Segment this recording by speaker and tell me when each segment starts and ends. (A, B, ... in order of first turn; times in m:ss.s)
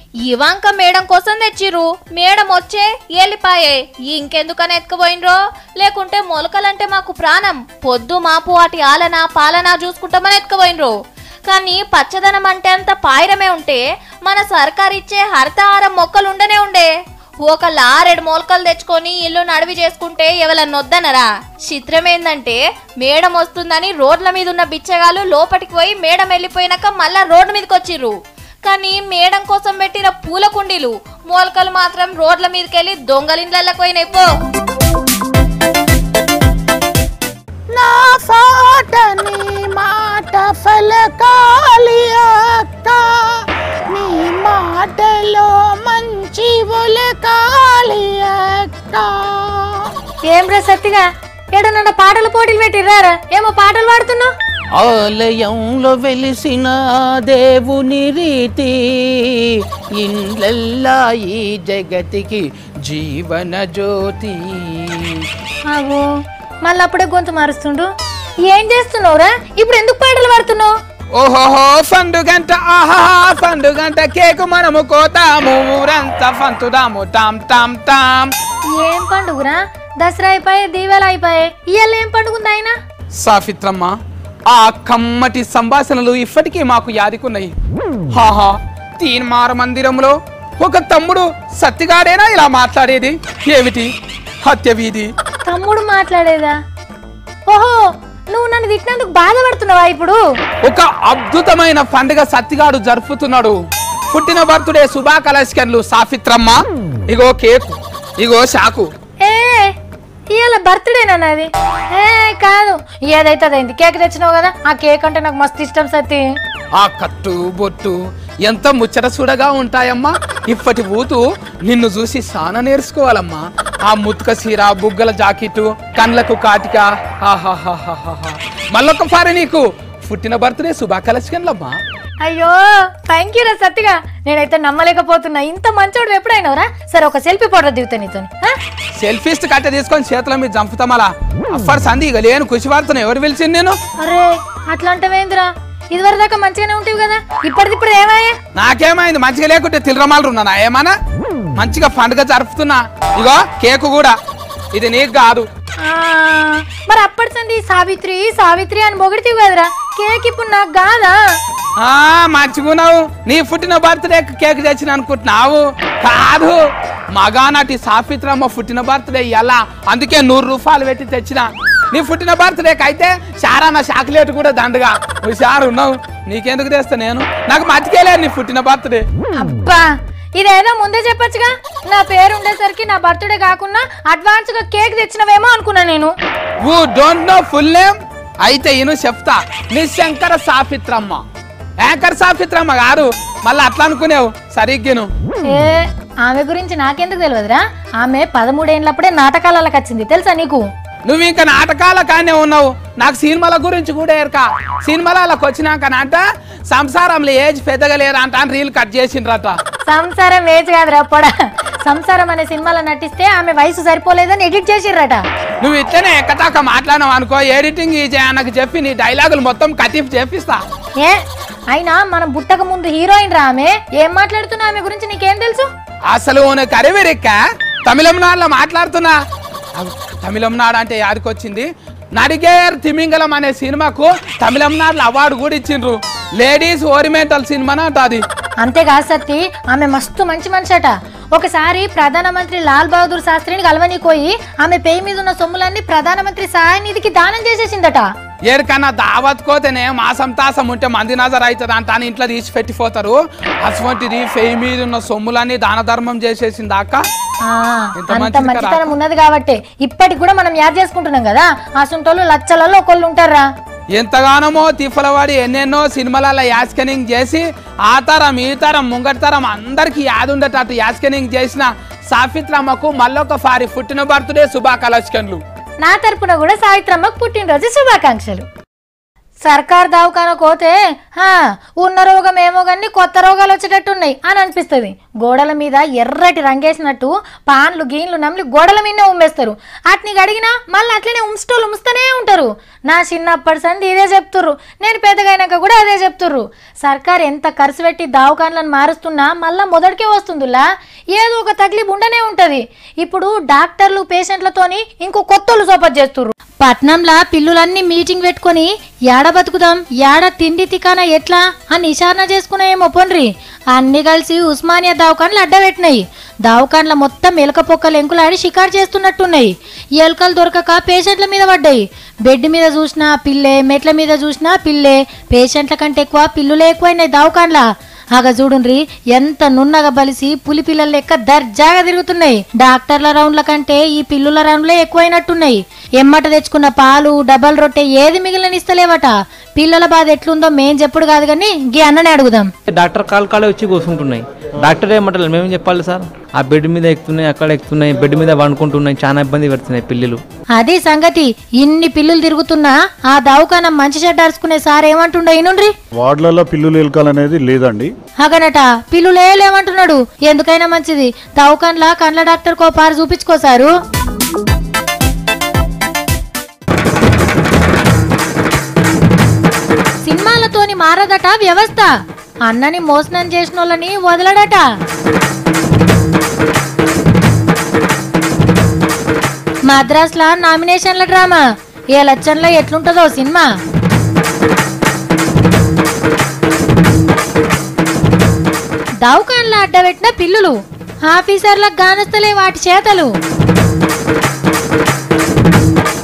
0:00.2-0:10.9 A
0:11.4-0:16.9 A
0:17.4-0:34.3 A
0:37.8-0:43.0 B
0:43.9-0:49.6 B
0:50.3-0:54.3 C
0:54.8-0:56.7 D
0:57.2-0:58.7 D
1:00.0-1:02.4 D
1:02.9-1:03.3 D
1:03.8-1:04.6 D
1:05.7-1:06.0 C
1:06.6-1:07.9 C
1:08.5-1:10.7 C
1:11.1-1:18.3 E
1:18.8-1:22.7 C
1:23.2-1:23.9 E
1:24.5-1:27.5 E
1:28.1-1:33.9 E
1:34.4-1:35.1 E
1:35.4-1:36.5 C
1:37.5-1:37.8 C
1:38.3-1:40.2 C
1:40.6-1:43.5 E
1:44.1-1:48.9 E
1:49.2-1:49.7 C
1:50.3-1:56.2 C
1:56.7-2:11.8 E
2:12.2-2:18.5 C
2:19.0-2:23.8 E
2:24.0-2:28.3 C
2:28.5-2:30.9 E
2:31.6-2:34.1 E
2:34.7-2:35.4 E
2:35.8-2:41.1 C
2:41.8-2:46.6 E
2:47.1-2:59.0 E
2:59.4-2:59.8 C
3:00.3-3:06.1 C
3:06.6-3:11.2 E
3:11.8-3:15.1 E
3:15.4-3:20.6 C
3:21.1-3:29.5 E
3:29.9-3:35.2 C
3:35.6-3:40.6 E
3:41.7-3:45.7 C
3:46.1-3:49.1 E
3:49.8-3:58.2 E
3:58.6-4:08.1 C
4:08.4-4:17.0 E
4:17.5-4:23.4 C
4:18.0-4:18.9 E
4:23.9-4:35.4 E
4:35.8-4:38.4 C
4:39.4-5:42.5 C
5:42.7-5:50.2 F
5:50.6-5:55.7 C
5:56.0-5:57.9 G
5:58.2-6:03.7 C
6:10.0-6:11.9 C
6:12.5-6:14.6 C
6:19.7-6:21.4 C
6:22.0-6:23.5 C
6:29.0-6:30.5 C
6:31.1-6:33.1 C